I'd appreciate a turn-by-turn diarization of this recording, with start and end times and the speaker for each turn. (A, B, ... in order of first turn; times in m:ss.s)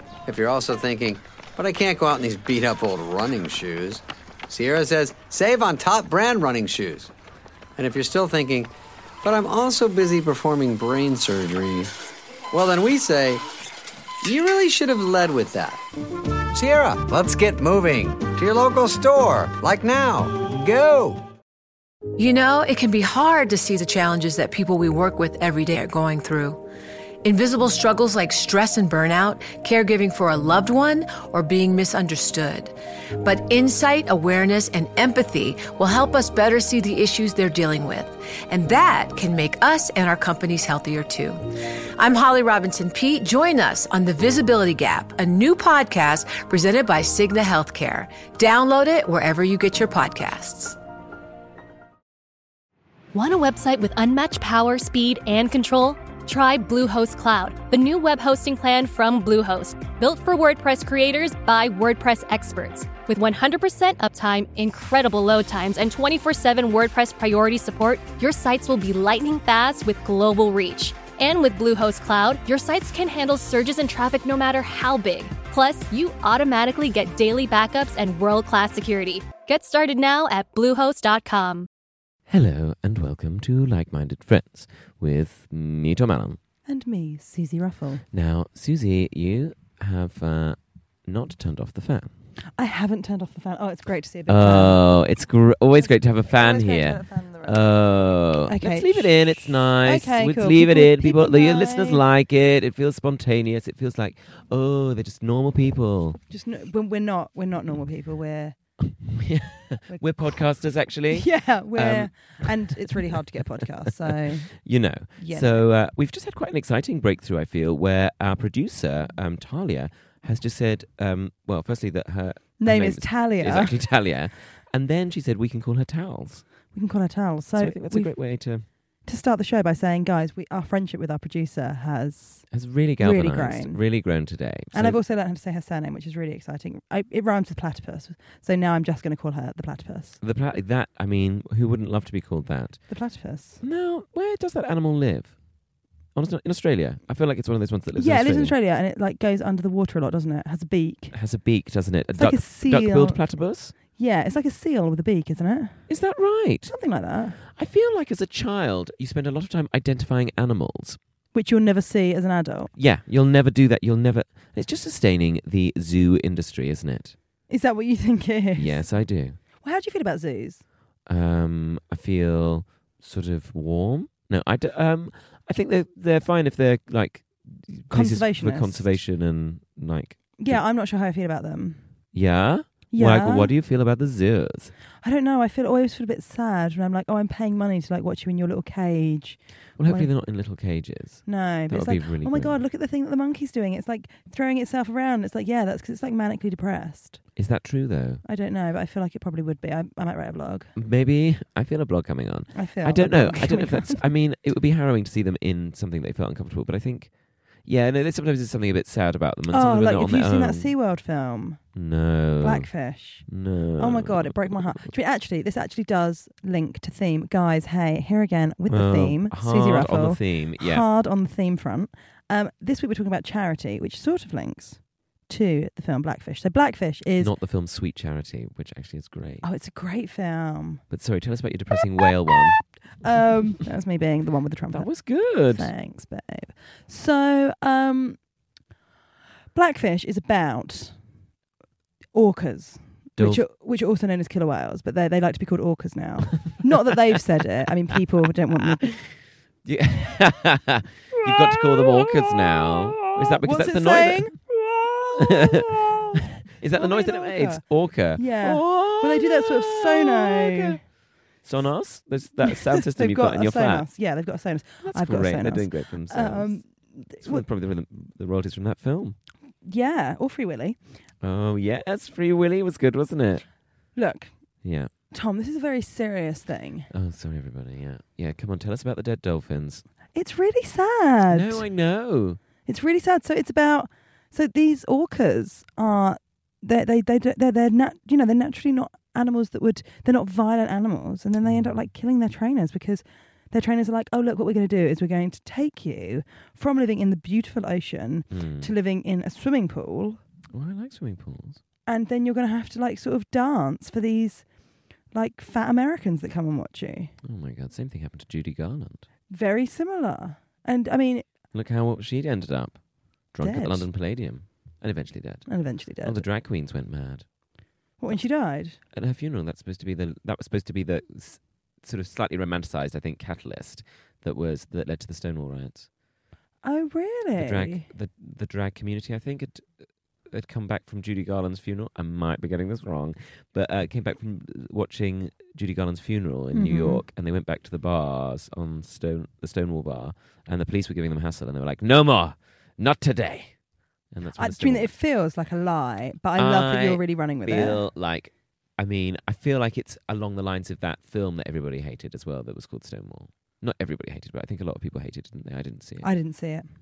0:00.2-0:07.1 A
0:07.8-0:11.9 A
0:12.5-0:13.4 A
0:14.2-0:15.8 A
0:16.5-0:21.2 A
0:22.2-0:26.6 B
0:27.2-0:50.8 B
0:53.1-1:21.7 C
1:22.3-1:26.4 D
1:26.7-1:28.0 E
1:28.1-1:32.1 D
1:32.6-1:35.0 E
1:34.3-1:46.2 D
1:35.7-1:37.7 E
1:38.4-1:42.0 E
1:46.3-1:48.6 E
1:49.0-1:53.2 D
1:51.1-1:54.5 E
1:53.9-2:06.4 D
1:55.2-1:55.6 E
2:02.6-2:03.8 E
2:06.7-2:08.2 E
2:07.6-2:08.6 D
2:08.7-2:12.5 E
2:12.5-2:15.0 D
2:13.0-2:13.8 E
2:14.7-2:20.2 E
2:20.2-2:22.8 D
2:22.9-2:23.6 E
2:23.6-2:25.4 D
2:26.1-2:28.5 D
2:28.0-2:31.2 E
2:31.1-2:33.7 D
2:32.1-2:33.2 E
2:33.7-2:35.9 E
2:35.9-2:36.7 D
2:36.7-2:37.4 E
2:37.4-2:41.0 D
2:41.3-2:42.7 E
2:42.8-2:47.2 D
2:47.5-2:48.9 E
2:48.6-2:49.4 D
2:49.4-2:50.6 E
2:51.0-3:00.6 D
2:57.9-2:59.0 E
3:00.4-3:01.8 E
3:02.1-3:04.7 D
3:02.9-3:03.5 E
3:05.0-3:10.1 E
3:09.8-3:12.6 D
3:11.2-3:17.2 E
3:17.4-3:18.2 D
3:18.2-3:20.7 E
3:20.8-3:30.7 D
3:22.5-3:24.0 E
3:29.5-3:31.6 E
3:31.7-3:32.7 D
3:32.4-3:47.3 E
3:33.2-3:34.9 D
3:38.7-3:40.8 D
3:47.2-3:49.4 D
3:49.4-3:50.8 E
3:50.9-3:52.6 D
3:53.0-3:58.2 E
3:54.7-3:55.7 D
3:59.5-4:01.0 E
4:02.1-4:08.9 E
4:03.2-4:03.4 D
4:08.6-4:14.3 D
4:11.1-4:20.8 E
4:15.2-4:15.6 D
4:16.5-4:20.8 D
4:21.4-4:23.9 D
4:22.5-4:27.4 E
4:24.8-4:26.6 D
4:27.2-4:29.2 D
4:29.6-4:30.8 E
4:31.2-4:33.4 D
4:33.9-4:34.3 E
4:34.6-4:34.9 D
4:35.1-4:36.9 E
4:36.9-4:39.8 D
4:40.1-4:41.6 E
4:41.3-4:42.4 D
4:42.6-5:00.2 E
4:51.4-4:51.8 D
4:58.3-4:58.7 D
5:00.5-5:01.6 D
5:01.8-5:04.5 E
5:05.1-5:07.1 E
5:07.2-5:09.0 D
5:09.3-5:11.2 E
5:11.5-5:17.3 D
5:13.4-5:13.9 E
5:15.4-5:16.2 E
5:18.0-5:18.8 E
5:18.9-5:25.9 D
5:26.6-5:27.9 E
5:27.4-5:29.7 D
5:30.3-5:43.6 D
5:36.5-5:37.0 E
5:44.1-5:44.9 D
5:44.3-5:47.8 E
5:46.4-5:56.1 D
5:56.0-5:56.6 E